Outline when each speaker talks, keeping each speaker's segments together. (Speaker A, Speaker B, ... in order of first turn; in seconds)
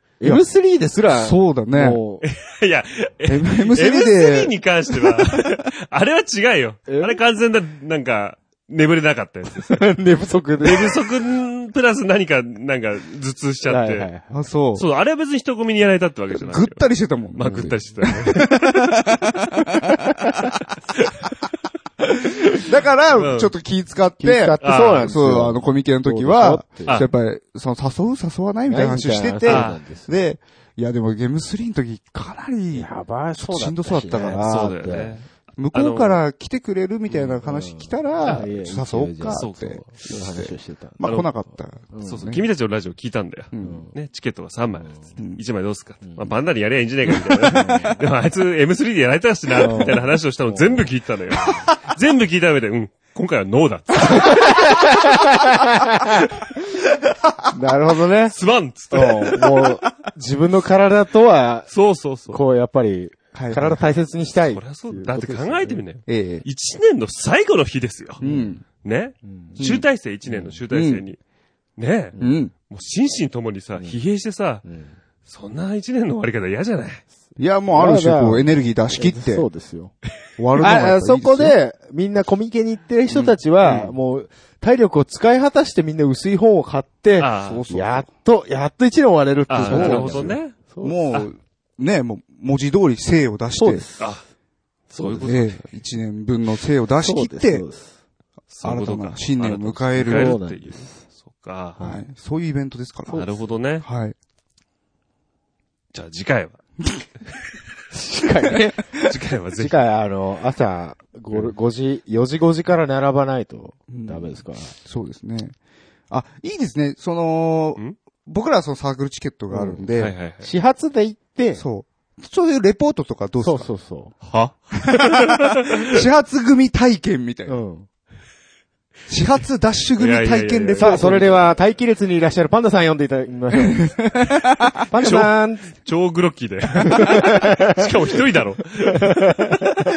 Speaker A: 0.2-2.2, 6.9-7.2, 9.6-11.0, 13.7-14.4, 24.2-27.1, 28.7-30.2, 32.7-35.2, 37.1-41.0, 41.9-42.2, 43.6-43.9, 46.0-46.4, 47.5-48.0, 49.6-50.8, 54.1-56.2, 57.5-58.4, 58.9-61.7, 62.3-65.8, 68.2-68.6, 69.2-69.7, 70.3-70.6, 72.1-72.4, 73.8-74.0, 74.6-75.0, 77.7-80.0, 80.6-91.0, 93.6-94.1, 94.9-95.3, 97.0-97.9, 100.0-101.0, 101.8-102.0, 107.9-108.9, 109.6-114.7, 119.5-119.9, 120.4-121.6, 123.4-124.1, 127.5-127.9, 130.8-134.0, 134.9-135.7, 136.8-137.9, 139.0-139.5
Speaker B: 1.1-2.0, 3.3-4.5, 14.3-14.8, 16.4-20.3, 22.6-35.0, 35.6-42.4, 43.5-43.9, 47.5-48.0, 63.3-63.9, 66.1-66.5, 68.2-68.6, 69.6-69.9, 70.7-71.0, 72.2-72.5, 77.4-79.5, 80.4-81.6, 83.1-83.8, 87.4-88.1, 89.5-93.8, 95.2-97.7, 98.6-100.5, 101.8-103.3, 103.8-104.2, 113.9-115.6, 116.1-120.2, 121.5-123.7, 124.9-125.2, 125.8-127.6, 129.1-131.4, 133.6-134.8
Speaker C: 2.2-9.9, 10.6-14.1, 14.8-18.7, 23.1-23.5, 24.6-25.1, 26.9-27.1, 29.4-29.8, 34.4-36.2, 39.3-39.8, 41.0-41.3, 42.0-54.5, 58.3-59.7, 61.7-62.4, 64.3-68.2, 68.8-71.2, 71.8-74.7, 75.2-77.0, 83.6-84.0, 87.2-87.7, 89.5-90.6, 94.0-94.3, 94.9-95.6, 98.5-101.8, 103.1-103.9, 105.9-106.6, 109.0-109.8, 120.0-120.5, 124.2-126.0, 130.0-131.5, 134.9-139.8